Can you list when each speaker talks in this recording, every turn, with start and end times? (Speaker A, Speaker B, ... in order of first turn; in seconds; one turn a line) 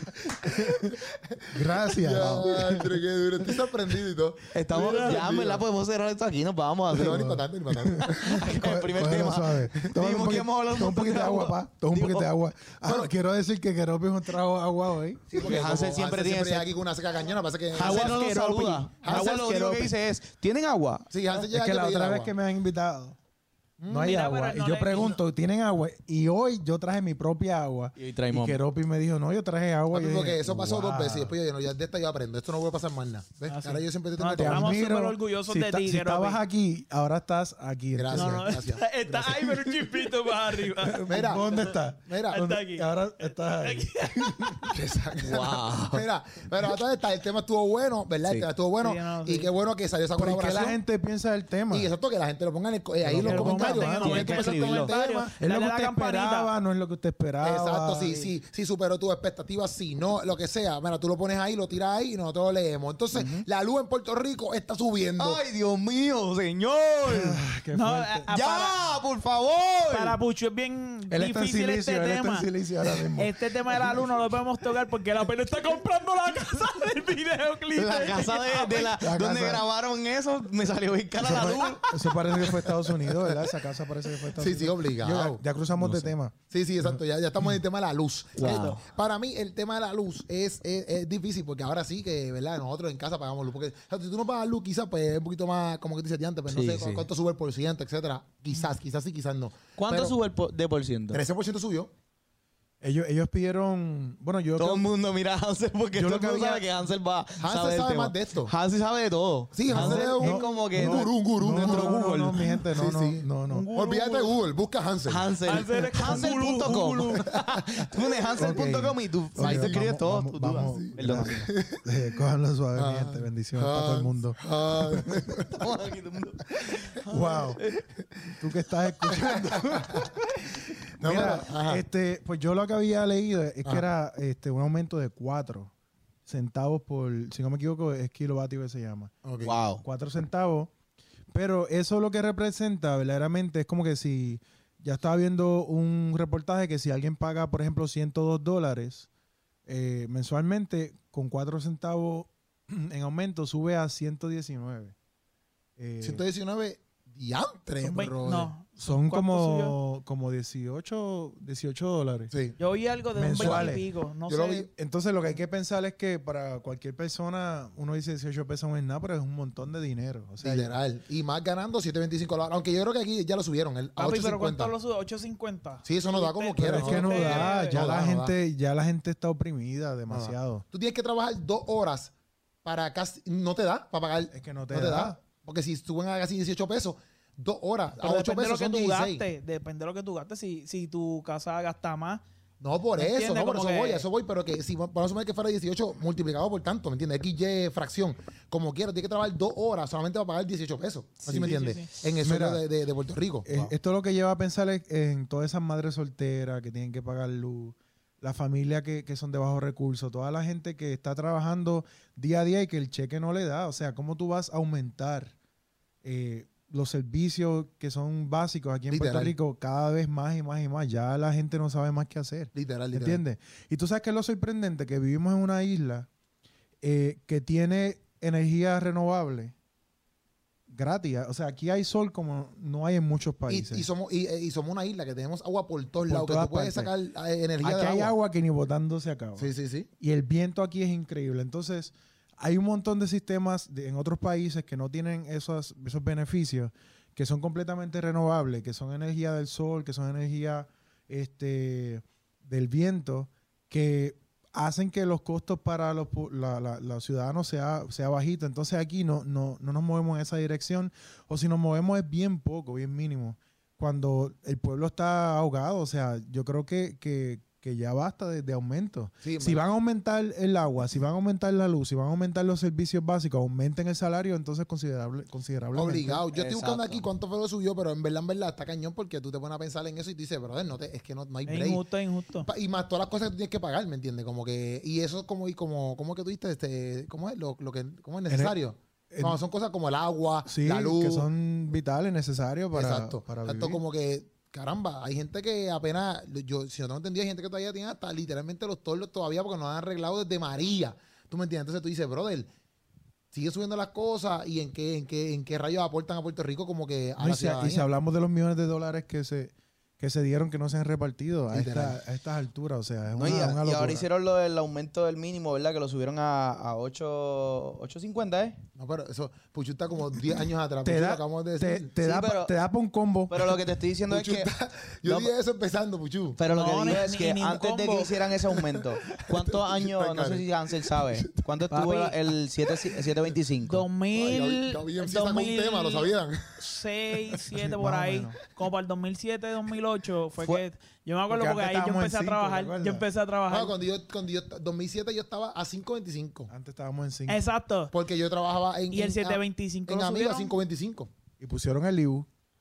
Speaker A: 0.3-1.0
Speaker B: 0.4-5.6
Speaker A: 1.5-3.0
Speaker C: 4.5-7.3
Speaker D: 4.7-5.2
Speaker B: 6.9-8.5
Speaker A: 7.0-15.3
Speaker C: 8.2-12.3
Speaker B: 12.8-13.1
Speaker B: 15.3-18.2
Speaker C: 15.3-16.7
Speaker C: 17.7-21.1
Speaker D: 17.7-19.9
Speaker B: 19.0-19.4
Speaker B: 21.1-22.3
Speaker A: 21.3-23.2
Speaker B: 23.8-24.2
Speaker A: 23.9-31.3
Speaker D: 24.0-25.2
Speaker C: 27.9-28.6
Speaker B: 29.9-34.7
Speaker D: 33.5-36.4
Speaker A: 34.3-38.5
Speaker B: 38.0-39.9
Speaker D: 38.1-41.7
Speaker A: 40.8-44.7
Speaker B: 41.0-41.5
Speaker B: 42.1-42.6
Speaker D: 42.3-44.7
Speaker B: 44.7-50.8
Speaker C: 45.2-46.0
Speaker D: 48.8-49.5
Speaker A: 50.1-51.9
Speaker B: 51.7-55.3
Speaker A: 53.0-54.2
Speaker D: 53.2-56.5
Speaker C: 54.0-54.9
Speaker A: 55.3-58.3
Speaker B: 57.4-65.4
Speaker C: 63.1-63.5
Speaker C: 65.2-67.4
Speaker A: 67.0-68.3
Speaker D: 67.7-68.8
Speaker C: 68.3-70.2
Speaker D: 69.9-72.5
Speaker A: 71.1-73.9
Speaker D: 73.1-79.0
Speaker C: 77.8-81.9
Speaker A: 79.0-79.6
Speaker A: 81.2-86.9
Speaker B: 81.3-81.6
Speaker B: 82.4-83.5
Speaker B: 84.3-85.4
Speaker C: 85.7-86.1
Speaker B: 86.5-100.2
Speaker C: 88.4-88.8
Speaker D: 88.4-88.8
Speaker C: 96.5-97.1
Speaker C: 99.8-101.2
Speaker B: 101.1-101.9
Speaker A: 102.8-104.9
Speaker C: 104.6-112.5
Speaker A: 105.9-106.6
Speaker B: 107.4-108.5
Speaker B: 109.5-112.0
Speaker A: 109.7-113.7
Speaker B: 112.8-115.2
Speaker D: 113.5-114.3
Speaker C: 115.1-121.5
Speaker D: 115.4-117.2
Speaker A: 115.8-116.8
Speaker A: 118.3-125.4
Speaker B: 119.4-119.8
Speaker B: 120.5-121.8
Speaker B: 122.8-125.7
Speaker C: 125.5-127.8
Speaker A: 127.0-127.6
Speaker A: 128.4-135.7
Speaker B: 129.1-130.1
Speaker B: 131.0-131.8
Speaker A: 136.2-139.1
Speaker B: 139.2-139.6
Speaker C: 139.4-139.8
Speaker A: 139.8-140.7
Speaker A: 141.3-149.1
Speaker A: 149.7-154.9
Speaker A: 155.8-156.2
Speaker B: 156.0-158.5
Speaker D: 157.8-159.8
Speaker A: 158.8-162.3
Speaker B: 162.3-162.6
Speaker D: 162.6-164.7
Speaker A: 163.2-163.8
Speaker B: 163.4-164.7
Speaker A: 164.7-170.7
Speaker B: 170.4-174.7
Speaker D: 173.9-177.8
Speaker B: 175.8-178.3
Speaker A: 176.6-180.6
Speaker B: 180.1-182.1
Speaker B: 182.6-189.2
Speaker A: 184.3-185.2
Speaker D: 188.0-192.2
Speaker B: 192.6-203.7
Speaker D: 192.9-194.1
Speaker C: 201.2-201.6
Speaker D: 201.4-201.9
Speaker A: 202.2-202.6
Speaker A: 203.4-215.3
Speaker A: 216.0-226.1
Speaker B: 218.9-219.3
Speaker B: 222.5-223.2
Speaker A: 226.8-229.5
Speaker A: 230.7-233.9
Speaker B: 233.5-238.1
Speaker A: 236.1-236.9
Speaker A: 237.6-276.2
Speaker B: 239.4-239.9
Speaker B: 269.2-269.6
Speaker B: 275.7-281.8
Speaker C: 276.3-277.1
Speaker D: 281.4-282.5
Speaker B: 282.4-291.3
Speaker A: 288.3-288.6
Speaker A: 289.1-289.4
Speaker A: 290.4-293.8
Speaker B: 292.7-302.5
Speaker B: 303.3-307.9
Speaker A: 307.2-314.1
Speaker B: 311.5-312.0
Speaker C: 313.2-318.6
Speaker B: 313.2-313.6
Speaker B: 318.8-321.9
Speaker A: 320.8-323.5
Speaker C: 322.0-322.5
Speaker C: 323.3-324.5
Speaker B: 324.1-326.4
Speaker C: 325.0-325.3
Speaker C: 326.4-333.8
Speaker D: 326.5-328.1
Speaker B: 329.2-330.4
Speaker D: 331.7-332.2
Speaker D: 333.6-343.7
Speaker B: 334.1-336.7
Speaker A: 337.5-338.4
Speaker A: 341.3-343.1
Speaker B: 343.5-346.5
Speaker A: 346.5-347.4
Speaker D: 347.3-347.9
Speaker B: 347.9-351.1
Speaker D: 348.9-350.6
Speaker A: 351.4-352.3